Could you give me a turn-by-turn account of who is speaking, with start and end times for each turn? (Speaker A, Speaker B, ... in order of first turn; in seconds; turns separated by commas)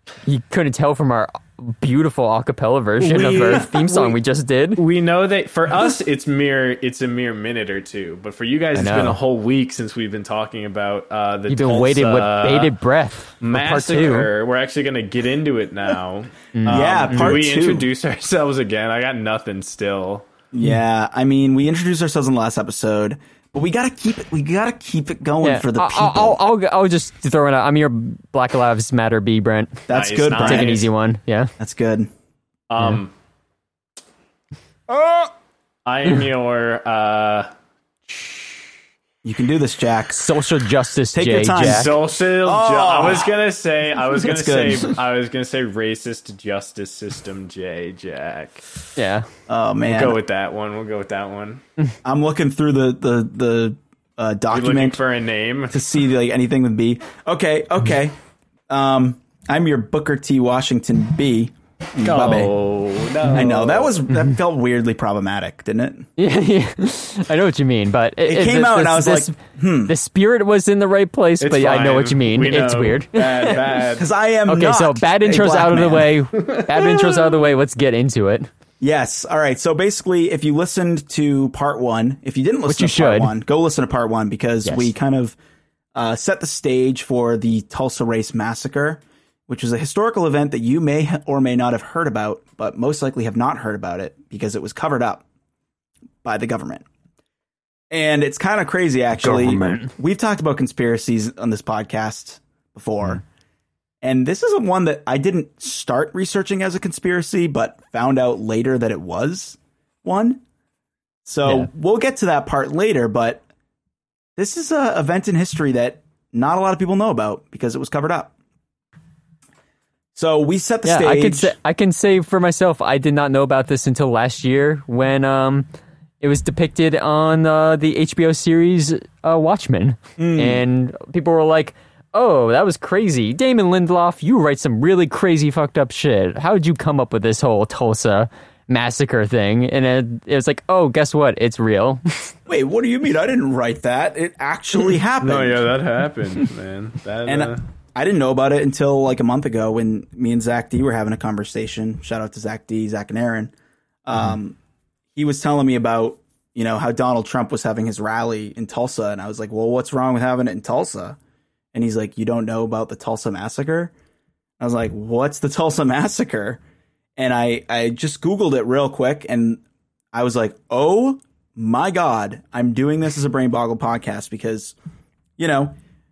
Speaker A: 0.2-4.8, Speaker B: 3.0-4.2, Speaker B: 4.8-12.7, Speaker A: 8.8-9.2, Speaker A: 11.5-14.3, Speaker B: 13.4-20.3, Speaker A: 16.5-17.4, Speaker C: 16.7-17.9, Speaker C: 20.5-26.4, Speaker A: 25.4-29.9, Speaker C: 29.9-30.8, Speaker B: 29.9-30.9, Speaker A: 30.4-31.5, Speaker C: 31.6-32.1, Speaker B: 32.7-33.1, Speaker C: 34.9-35.3, Speaker B: 35.9-37.5, Speaker B: 38.1-38.7, Speaker C: 39.2-40.3, Speaker A: 40.1-41.9, Speaker C: 41.1-43.4, Speaker B: 41.6-48.9, Speaker C: 44.2-44.9, Speaker A: 49.0-49.3, Speaker C: 49.5-50.2, Speaker B: 49.8-51.6, Speaker C: 52.0-55.0, Speaker B: 54.5-55.8, Speaker C: 55.7-58.2, Speaker C: 58.7-62.5, Speaker B: 62.0-64.0, Speaker C: 63.3-66.1, Speaker A: 66.2-73.6, Speaker C: 68.2-69.9, Speaker B: 71.4-74.1, Speaker C: 73.9-76.2, Speaker A: 74.5-78.5, Speaker C: 76.8-77.3, Speaker C: 78.8-85.4, Speaker A: 82.7-83.3, Speaker C: 86.0-95.2, Speaker C: 96.2-96.9, Speaker C: 97.9-103.2, Speaker A: 99.2-99.9, Speaker C: 104.0-110.4, Speaker C: 111.3-113.4, Speaker A: 111.5-111.7, Speaker C: 114.4-118.3, Speaker C: 120.2-121.5, Speaker A: 120.8-125.7, Speaker A: 126.2-142.3, Speaker C: 130.2-130.6, Speaker C: 142.5-145.7, Speaker B: 145.2-147.6, Speaker C: 147.3-153.5, Speaker C: 154.1-154.6, Speaker C: 155.2-161.2, Speaker C: 161.7-163.9, Speaker C: 164.6-166.6, Speaker C: 167.2-174.8, Speaker C: 175.4-175.8